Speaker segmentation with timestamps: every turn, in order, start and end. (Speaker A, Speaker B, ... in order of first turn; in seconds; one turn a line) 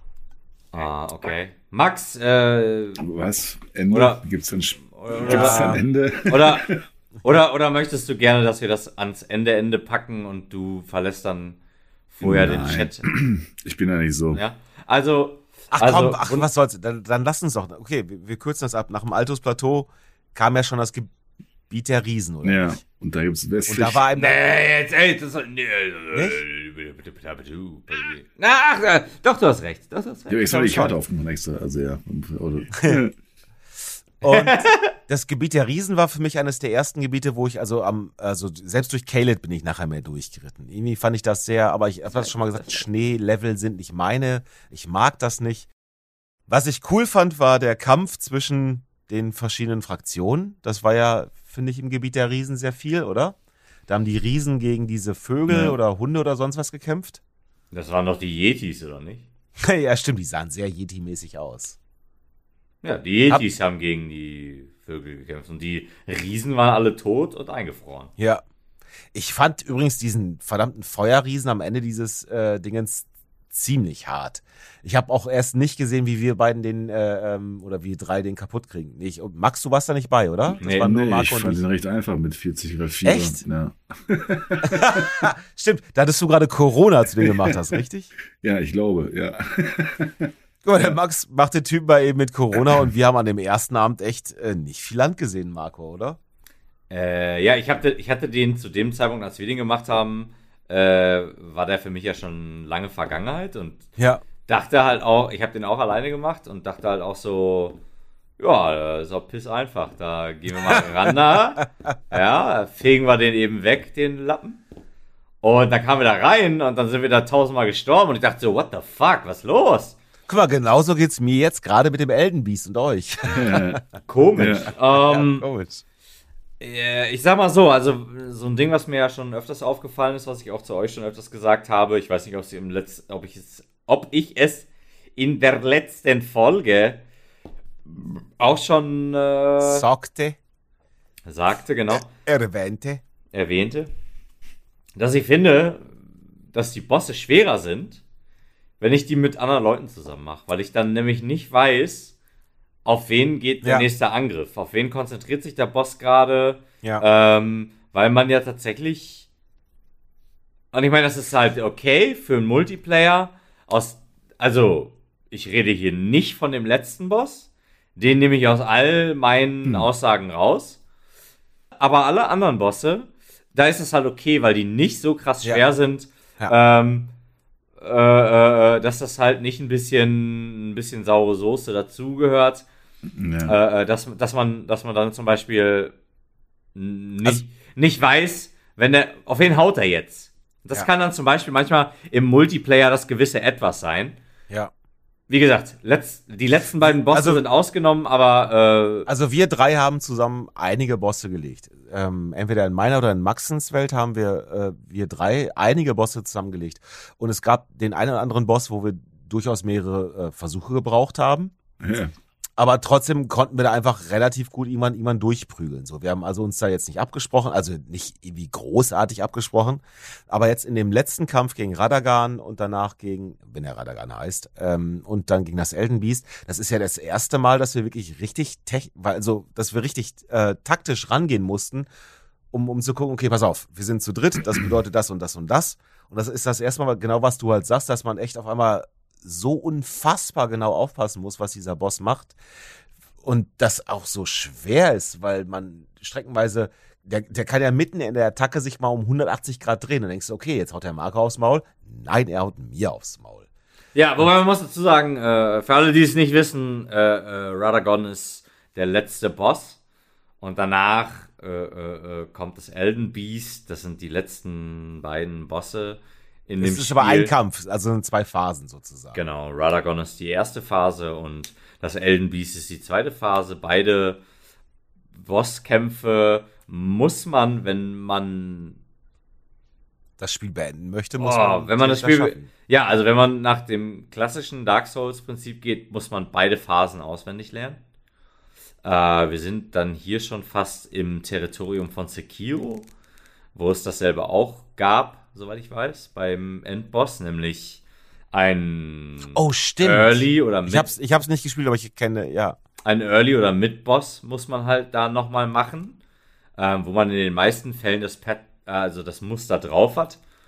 Speaker A: 0.7-3.0
Speaker B: 3.0-6.8
Speaker A: 3.9-4.2
Speaker A: 4.9-11.6
Speaker C: 5.3-5.8
Speaker A: 12.1-13.0
Speaker B: 12.2-14.4
Speaker A: 14.3-16.5
Speaker C: 15.7-21.1
Speaker C: 21.7-22.8
Speaker B: 22.4-24.0
Speaker C: 23.7-24.4
Speaker A: 24.1-30.8
Speaker C: 26.1-26.4
Speaker B: 30.3-33.1
Speaker C: 30.5-30.9
Speaker C: 34.2-45.7
Speaker A: 34.2-34.9
Speaker C: 46.5-53.4
Speaker C: 53.9-57.2
Speaker B: 55.5-55.7
Speaker A: 57.7-59.2
Speaker C: 59.6-61.8
Speaker A: 62.8-68.1
Speaker C: 69.1-81.6
Speaker B: 80.6-85.1
Speaker A: 80.6-80.9
Speaker C: 83.0-83.4
Speaker C: 84.6-88.1
Speaker B: 88.4-90.3
Speaker C: 90.6-96.2
Speaker A: 96.9-103.9
Speaker A: 104.5-107.8
Speaker A: 108.4-114.6
Speaker C: 110.7-111.1
Speaker A: 115.4-120.0
Speaker C: 120.3-123.8
Speaker B: 123.3-123.8
Speaker A: 124.0-125.5
Speaker B: 124.4-124.7
Speaker C: 124.7-125.8
Speaker A: 126.6-137.0
Speaker A: 137.9-139.9
Speaker C: 139.6-140.4
Speaker A: 141.2-142.1
Speaker C: 141.9-143.0
Speaker A: 143.3-143.9
Speaker A: 144.9-148.0
Speaker A: 148.8-152.1
Speaker A: 152.8-159.3
Speaker A: 160.7-170.8
Speaker A: 171.8-177.1
Speaker A: 177.8-182.6
Speaker B: 183.1-183.5
Speaker A: 183.4-185.9
Speaker A: 186.7-194.2
Speaker A: 195.3-199.1
Speaker C: 196.8-197.4
Speaker C: 199.1-211.5
Speaker B: 211.8-212.1
Speaker C: 212.6-231.9
Speaker C: 232.5-242.3
Speaker C: 243.2-253.5
Speaker A: 253.9-259.8
Speaker A: 260.4-267.3
Speaker C: 266.6-269.2
Speaker A: 269.1-274.2
Speaker A: 275.2-278.8
Speaker C: 280.2-282.5
Speaker A: 281.2-287.8
Speaker A: 288.8-292.9
Speaker A: 293.5-300.9
Speaker C: 299.3-302.6
Speaker A: 302.8-306.0
Speaker A: 306.6-310.2